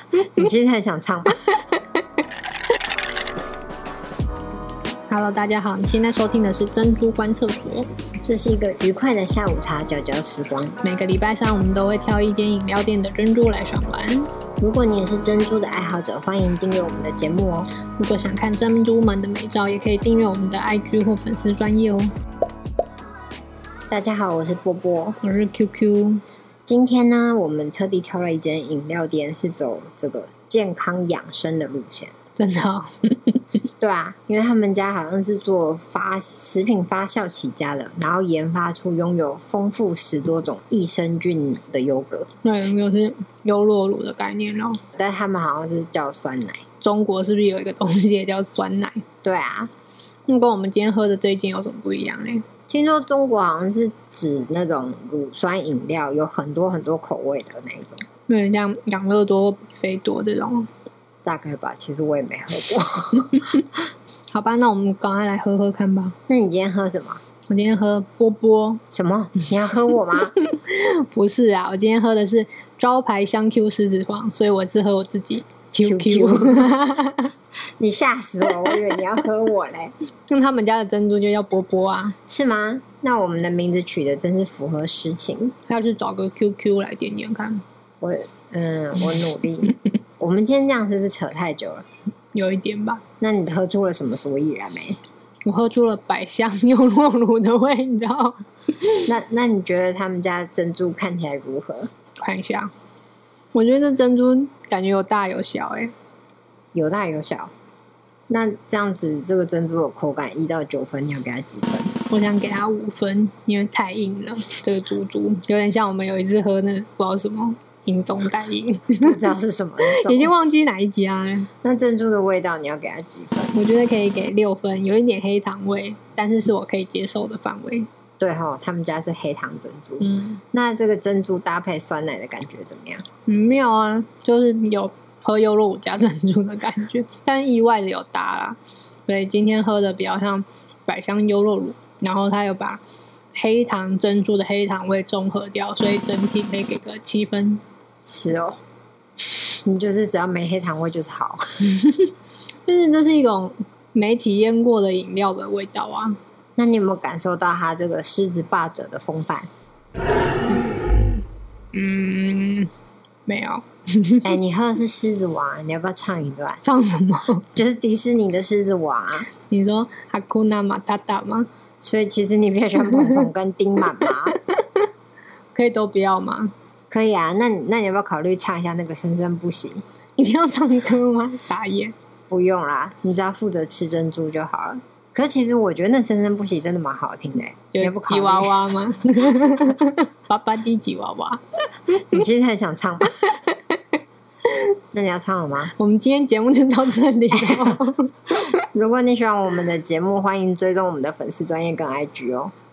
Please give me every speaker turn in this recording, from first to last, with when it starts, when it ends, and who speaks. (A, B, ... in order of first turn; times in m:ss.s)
0:00.3-0:01.4 A
0:01.5-0:01.8 B
0:05.1-0:07.9 B
0:08.2-0:10.8 A
0:10.8-0:14.3 B
0:14.6-0:17.7 A
0:18.0-0:22.1 B
0:23.9-0:25.2 A
0:25.2-0:26.2 B
0:26.6-0:32.1 A
0:32.4-0:33.4 B
0:33.8-0:42.3 A
0:42.4-0:44.8 B
0:44.9-0:46.6 A
0:46.8-0:49.0 B
0:49.2-0:49.7 A
0:50.3-0:52.4 B
0:52.7-0:58.0 A
0:58.3-1:00.7 B
1:01.2-1:03.5 A
1:04.3-1:06.2 B
1:06.3-1:07.2 A
1:07.5-1:08.8 B
1:08.9-1:10.3 A
1:10.3-1:17.3 B
1:15.8-1:16.7 A
1:17.8-1:19.9 A
1:18.5-1:18.8 B
1:20.3-1:22.2 B
1:22.3-1:25.5 A
1:25.7-1:27.6 B
1:28.0-1:31.8 A
1:32.3-1:33.0 B
1:33.2-1:35.0 A
1:35.4-1:39.0 B
1:39.0-1:41.9 A
1:42.2-1:42.7 B
1:43.5-1:45.9 B
1:46.7-1:47.5 A
1:48.3-1:51.9 A
1:52.1-1:59.2 B
1:59.0-2:00.3 A
1:59.8-2:01.5 B
2:01.6-2:03.6 A
2:03.5-2:07.9 B
2:08.2-2:13.0 A
2:10.0-2:10.4 B
2:13.2-2:22.8 B
2:23.3-2:27.6 B
2:28.0-2:28.6 A
2:29.6-2:31.4 A
2:32.7-2:36.2 B
2:36.6-2:39.5 A
2:41.7-2:42.7 B
2:43.2-2:44.3 B
2:44.2-2:46.6 A
2:46.6-2:47.4 B
2:47.5-2:49.3 A
2:49.5-2:51.5 B
2:51.8-2:54.4 A
2:52.8-2:53.2 B
2:54.0-2:54.8 B
2:55.5-2:56.5 B
2:56.9-2:59.8 A
3:00.2-3:01.9 B
3:02.3-3:08.6 A
3:07.7-3:11.4 B
3:11.9-3:13.1 A
3:13.2-3:13.6 B
3:14.9-3:15.7 A
3:15.8-3:18.5 B
3:17.4-3:17.7 A
3:18.7-3:22.5 A